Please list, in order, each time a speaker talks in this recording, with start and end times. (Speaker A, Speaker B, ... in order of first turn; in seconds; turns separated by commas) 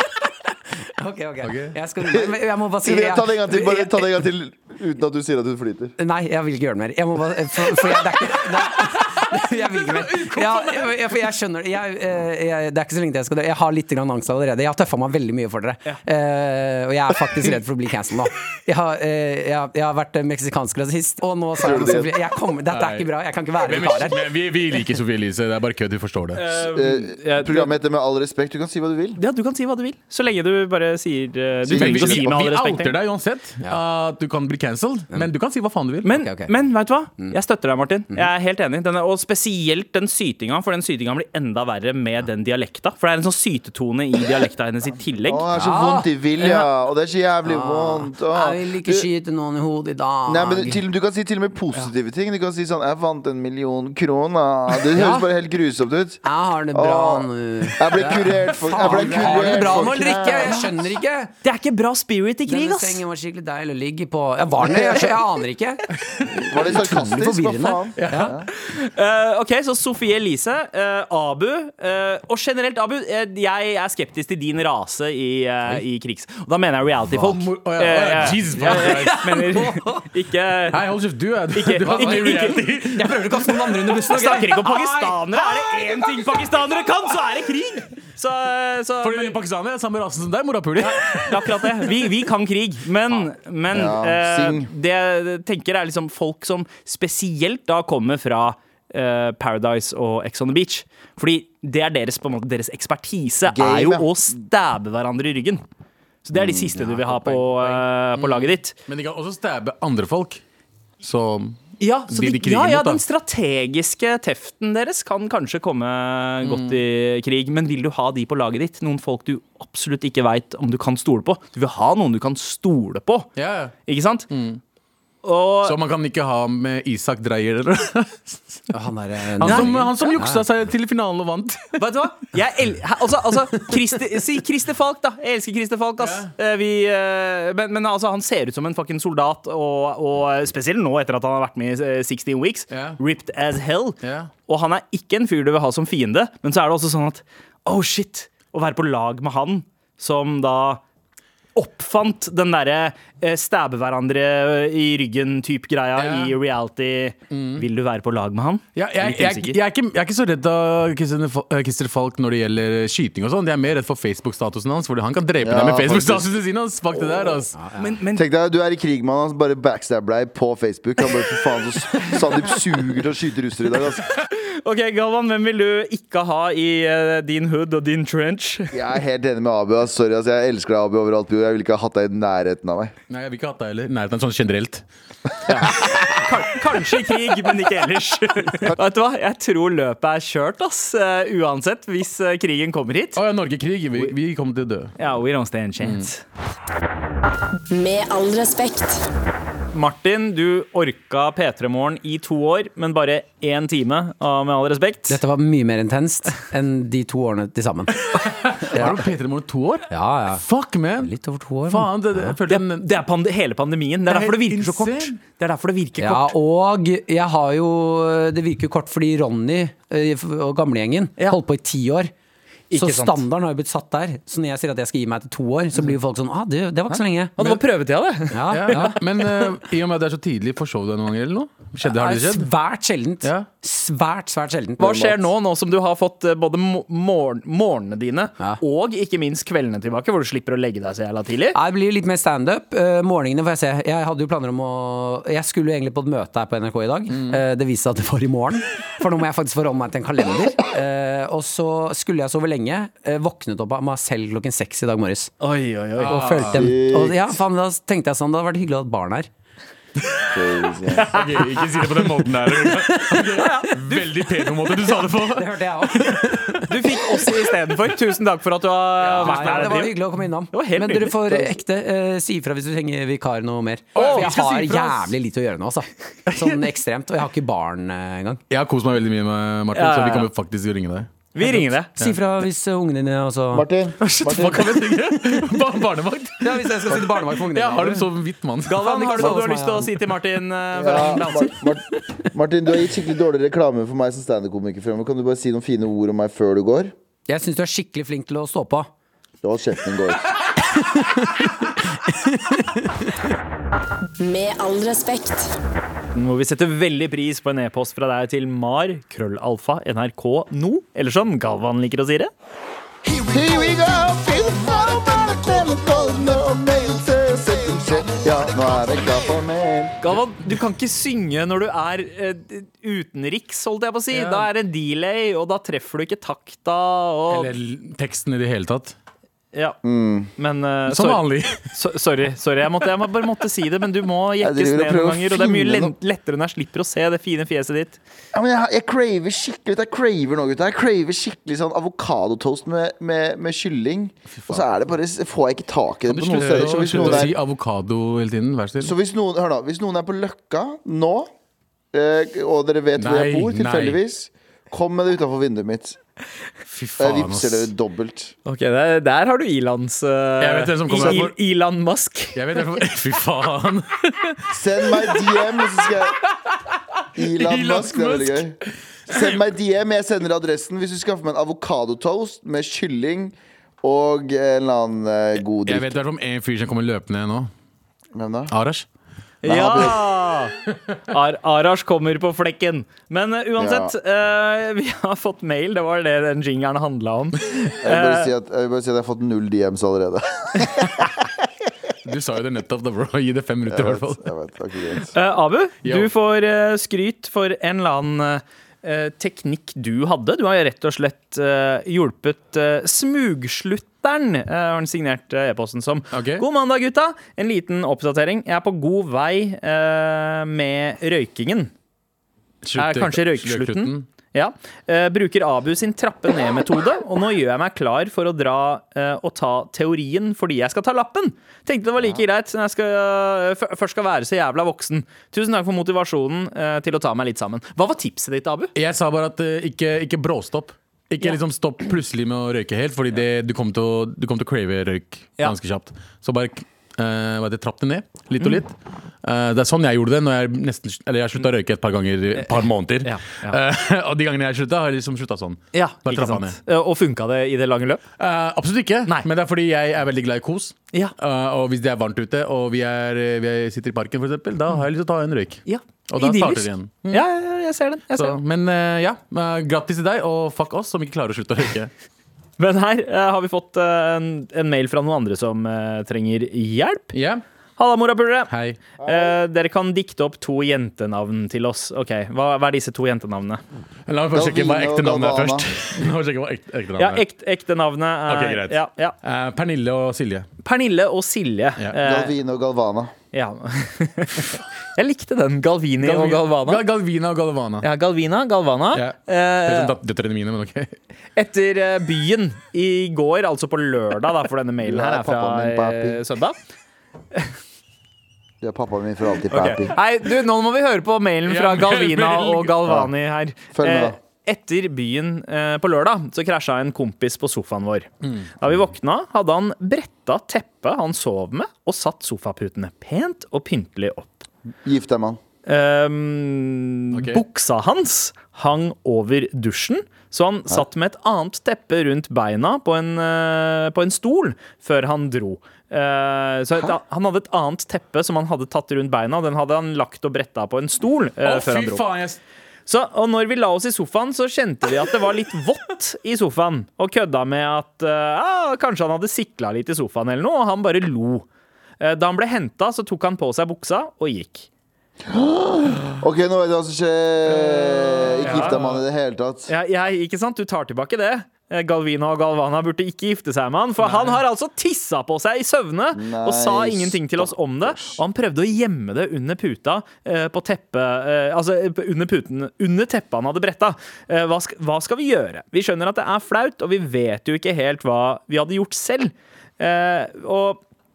Speaker A: 0.8-4.1, Speaker B: 1.4-1.8, Speaker C: 2.1-6.0, Speaker A: 6.0-24.2, Speaker B: 9.9-11.0, Speaker C: 21.6-22.1, Speaker B: 22.7-23.1, Speaker B: 23.6-26.4, Speaker D: 26.4-27.7, Speaker C: 26.7-29.2, Speaker D: 29.2-33.0, Speaker C: 31.7-32.3, Speaker B: 31.7-36.1, Speaker D: 36.0-45.5, Speaker A: 36.1-36.5, Speaker C: 45.3-49.1, Speaker A: 45.5-46.1, Speaker A: 47.4-50.8, Speaker C: 50.3-56.2, Speaker A: 54.9-55.3, Speaker A: 56.2-61.3, Speaker C: 56.7-60.7, Speaker B: 58.0-59.9, Speaker D: 61.4-63.0, Speaker A: 62.5-68.4, Speaker C: 66.5-68.5, Speaker B: 68.0-68.3, Speaker D: 68.5-80.8, Speaker B: 77.2-79.3, Speaker A: 78.5-80.1, Speaker B: 80.7-83.5, Speaker D: 81.5-82.7, Speaker A: 81.9-85.9, Speaker D: 84.1-89.4, Speaker B: 89.0-91.9, Speaker D: 90.8-105.6, Speaker C: 93.7-94.7, Speaker C: 103.5-104.1, Speaker D: 106.2-108.8, Speaker B: 106.8-110.4, Speaker B: 111.0-113.0, Speaker D: 111.8-123.3, Speaker B: 116.4-116.8, Speaker B: 123.4-123.8, Speaker D: 123.9-124.3, Speaker B: 124.3-124.6, Speaker D: 125.2-125.8, Speaker B: 125.6-128.7, Speaker A: 128.7-130.5, Speaker B: 129.4-131.8, Speaker D: 129.4-129.8, Speaker D: 131.8-150.8, Speaker B: 136.0-136.3, Speaker B: 142.7-143.0, Speaker B: 144.0-144.3, Speaker D: 151.6-159.6, Speaker B: 156.0-156.3, Speaker B: 157.3-157.7, Speaker B: 158.8-167.6, Speaker C: 165.4-166.3, Speaker C: 166.9-167.4, Speaker A: 167.6-167.9, Speaker D: 167.8-168.3, Speaker C: 168.2-174.2, Speaker D: 174.2-178.8, Speaker C: 178.7-182.9, Speaker B: 183.1-184.8, Speaker D: 185.5-193.2, Speaker B: 193.2-194.9, Speaker D: 195.0-196.2, Speaker E: 197.7-199.1, Speaker D: 199.7-205.2, Speaker A: 205.1-209.1, Speaker B: 208.0-211.1, Speaker A: 209.9-210.4, Speaker A: 211.0-212.4, Speaker B: 211.7-212.9, Speaker D: 212.5-216.3, Speaker B: 214.1-215.1, Speaker A: 216.0-222.1, Speaker D: 222.7-223.2, Speaker A: 222.7-227.5, Speaker D: 227.4-229.4, Speaker A: 228.3-229.0, Speaker B: 228.5-232.5, Speaker A: 231.8-235.2, Speaker B: 233.2-233.5, Speaker D: 234.8-241.6, Speaker A: 241.5-255.3, Speaker B: 247.1-247.4, Speaker D: 255.4-256.3, Speaker B: 256.0-256.7, Speaker A: 256.0-259.3, Speaker C: 256.5-257.2, Speaker C: 260.3-261.1, Speaker D: 261.0-261.9, Speaker B: 261.0-266.6, Speaker A: 262.9-263.4, Speaker D: 263.2-264.9, Speaker A: 265.2-267.2, Speaker D: 266.7-270.0, Speaker B: 269.0-269.9, Speaker A: 269.2-278.4, Speaker D: 270.5-271.4, Speaker D: 273.9-274.9, Speaker B: 273.9-274.9, Speaker B: 276.3-276.6, Speaker B: 278.5-282.1, Speaker D: 279.7-280.3, Speaker D: 281.3-281.9, Speaker A: 282.0-283.7, Speaker C: 283.5-284.7, Speaker B: 284.0-289.3, Speaker A: 286.4-288.1, Speaker D: 288.6-291.6, Speaker A: 288.7-289.9, Speaker C: 290.8-296.9, Speaker A: 297.3-298.9, Speaker C: 299.4-300.4, Speaker A: 300.6-303.2, Speaker E: 304.2-305.6, Speaker D: 306.1-312.3, Speaker C: 313.1-320.0, Speaker D: 320.0-327.5, Speaker B: 324.1-324.5, Speaker B: 327.3-328.9, Speaker D: 329.5-329.8, Speaker C: 329.8-330.3, Speaker D: 330.4-338.0, Speaker B: 330.9-331.7, Speaker C: 334.4-335.9, Speaker C: 338.3-347.4, Speaker B: 344.3-344.6, Speaker B: 346.1-348.9, Speaker D: 346.9-347.2, Speaker C: 348.8-351.3, Speaker C: 351.9-356.0, Speaker B: 353.0-354.0, Speaker B: 356.7-357.7, Speaker C: 357.0-358.3, Speaker D: 358.4-362.7, Speaker B: 360.4-361.3, Speaker B: 362.4-365.3, Speaker C: 364.5-366.2, Speaker C: 367.2-368.6, Speaker B: 367.2-368.5, Speaker B: 369.1-369.4, Speaker C: 369.1-376.0, Speaker B: 375.4-377.5, Speaker C: 378.1-378.5, Speaker B: 378.5-378.9, Speaker D: 379.4-380.6, Speaker C: 379.4-380.0, Speaker D: 381.1-388.3, Speaker C: 383.6-383.9, Speaker C: 387.8-391.3, Speaker B: 392.1-394.3, Speaker C: 393.7-395.1, Speaker D: 395.1-411.7, Speaker B: 395.8-396.1, Speaker B: 406.1-406.4, Speaker B: 412.6-414.1, Speaker D: 412.8-428.7, Speaker B: 428.8-446.6, Speaker D: 442.4-443.6, Speaker D: 445.7-448.0, Speaker B: 448.2-457.2, Speaker D: 455.7-458.4, Speaker B: 458.1-461.9, Speaker D: 462.6-467.1, Speaker B: 467.1-467.4, Speaker D: 467.8-473.6, Speaker B: 468.5-468.8, Speaker C: 469.0-469.4, Speaker B: 474.1-477.2, Speaker C: 474.3-475.8, Speaker D: 477.0-479.1, Speaker B: 478.3-480.5, Speaker D: 480.6-482.4, Speaker C: 482.0-483.1, Speaker D: 483.3-486.8, Speaker B: 486.0-487.9, Speaker D: 487.8-489.9, Speaker B: 488.9-491.0, Speaker D: 491.4-496.6, Speaker C: 494.8-496.2, Speaker C: 498.6-500.0, Speaker D: 499.5-514.5, Speaker B: 501.5-502.8, Speaker C: 503.7-504.2, Speaker B: 508.2-508.5, Speaker C: 514.8-515.4, Speaker D: 515.7-532.0, Speaker B: 517.1-517.4, Speaker B: 531.4-532.4, Speaker D: 532.9-541.5, Speaker D: 542.0-544.7, Speaker C: 545.3-549.7, Speaker B: 547.5-549.0, Speaker D: 548.4-548.8, Speaker D: 549.7-570.8, Speaker B: 554.0-554.4, Speaker C: 556.1-558.2